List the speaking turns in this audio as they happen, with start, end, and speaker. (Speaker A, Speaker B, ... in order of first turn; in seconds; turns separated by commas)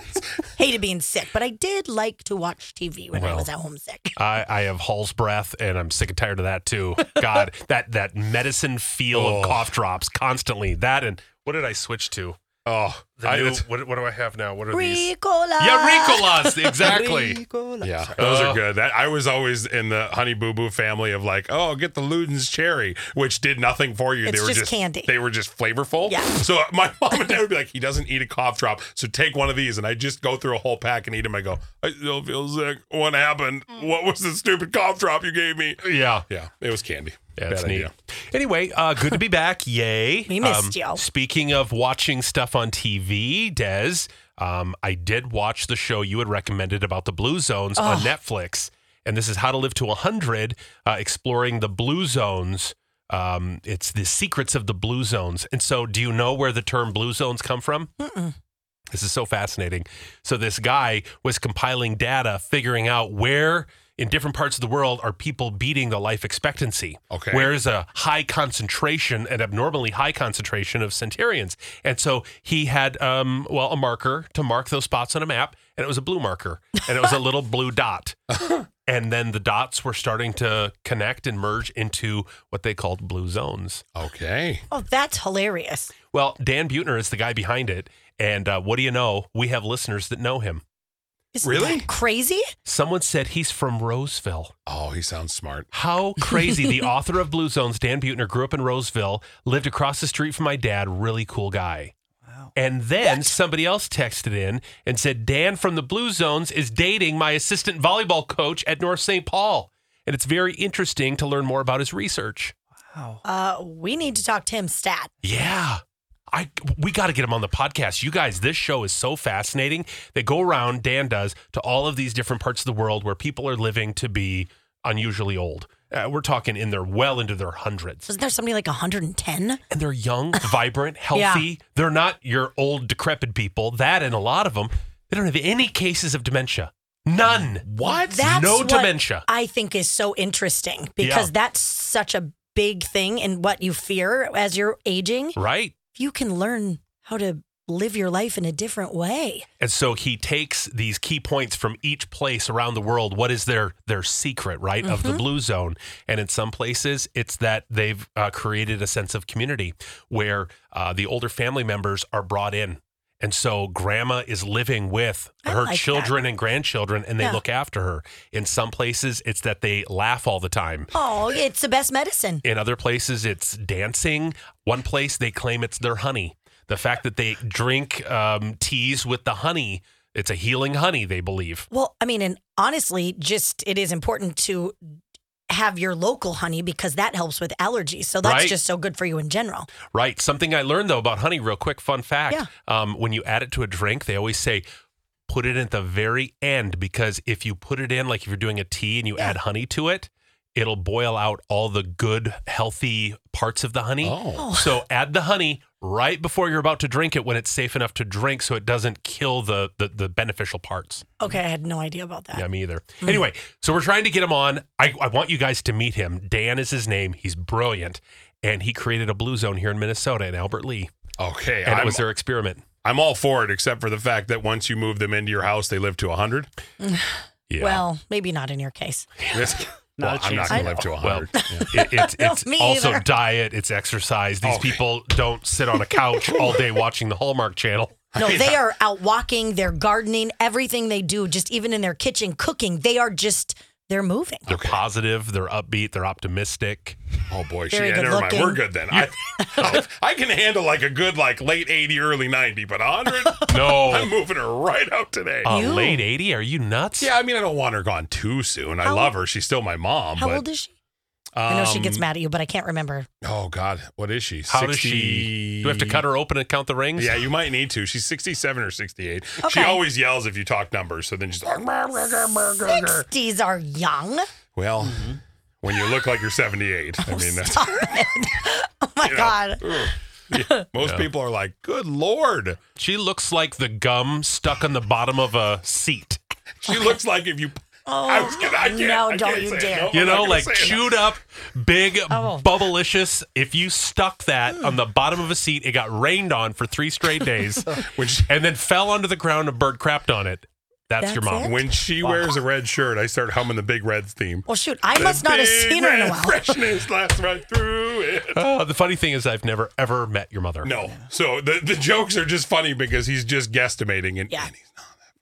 Speaker A: 0.6-4.2, Speaker B: 3.1-3.5, Speaker B: 4.2-12.4, Speaker C: 9.1-9.7, Speaker C: 12.6-13.6, Speaker B: 13.2-17.4, Speaker A: 14.7-16.8, Speaker D: 16.7-18.4, Speaker C: 17.8-37.9, Speaker B: 18.2-18.6, Speaker A: 24.2-25.1, Speaker A: 26.1-26.4, Speaker B: 35.8-36.2, Speaker B: 37.4-57.9, Speaker A: 40.3-41.0, Speaker A: 47.8-48.1, Speaker A: 58.0-58.3, Speaker B: 58.9-78.2, Speaker C: 67.1-67.5, Speaker B: 78.8-83.8, Speaker C: 83.9-84.6, Speaker A: 84.7-85.9, Speaker B: 86.1-90.6, Speaker A: 91.3-92.5, Speaker C: 91.4-91.9, Speaker B: 92.6-94.5, Speaker C: 94.7-95.7, Speaker B: 95.7-101.9, Speaker B: 102.5-112.5, Speaker A: 103.1-103.3, Speaker D: 112.9-113.2, Speaker A: 113.2-115.1, Speaker B: 115.2-128.1, Speaker A: 128.1-129.6, Speaker B: 129.7-137.7, Speaker A: 131.1-131.5, Speaker C: 137.5-138.3, Speaker A: 138.1-145.4, Speaker B: 138.2-139.3, Speaker B: 141.0-141.3, Speaker B: 145.3-145.7, Speaker A: 145.9-149.4, Speaker B: 149.6-170.9, Speaker A: 154.8-155.2, Speaker A: 165.4-166.1, Speaker A: 170.9-172.4, Speaker B: 172.4-181.7, Speaker A: 181.7-184.8, Speaker A: 185.5-189.7, Speaker B: 188.2-188.6, Speaker B: 189.9-194.6, Speaker B: 195.3-211.1, Speaker C: 204.0-204.5, Speaker A: 204.4-204.8, Speaker A: 211.2-212.4, Speaker B: 212.3-220.9, Speaker C: 221.2-222.0, Speaker B: 221.6-222.6, Speaker C: 222.8-226.5, Speaker A: 226.8-229.1, Speaker B: 227.5-227.8, Speaker C: 229.3-231.7, Speaker D: 230.0-230.9, Speaker A: 230.5-230.8, Speaker B: 231.0-238.0, Speaker A: 231.3-233.1, Speaker C: 234.4-234.8, Speaker C: 236.2-236.7, Speaker C: 238.1-238.6, Speaker A: 238.2-244.5, Speaker C: 244.5-244.8, Speaker B: 244.5-247.0, Speaker C: 247.3-255.5, Speaker A: 247.7-248.6, Speaker B: 248.9-249.8, Speaker A: 249.4-249.8, Speaker B: 253.4-254.1, Speaker B: 255.4-257.1, Speaker A: 255.5-256.0, Speaker C: 257.0-260.4, Speaker A: 258.8-259.1, Speaker A: 260.2-260.7, Speaker C: 261.4-262.0, Speaker A: 261.5-263.1, Speaker C: 263.2-266.0, Speaker B: 264.5-267.3, Speaker C: 267.0-273.1, Speaker A: 269.4-269.8, Speaker A: 272.7-274.3, Speaker C: 274.5-277.9, Speaker D: 274.8-275.2, Speaker A: 277.0-280.6, Speaker C: 279.0-282.6, Speaker B: 280.8-281.1, Speaker B: 282.8-286.2, Speaker C: 286.6-291.0, Speaker A: 287.9-290.4, Speaker B: 289.9-301.7, Speaker A: 292.1-292.5, Speaker C: 297.7-298.3, Speaker A: 301.0-301.6, Speaker C: 301.4-308.4, Speaker D: 302.0-302.3, Speaker A: 304.5-306.5, Speaker B: 308.3-310.7, Speaker C: 310.6-315.1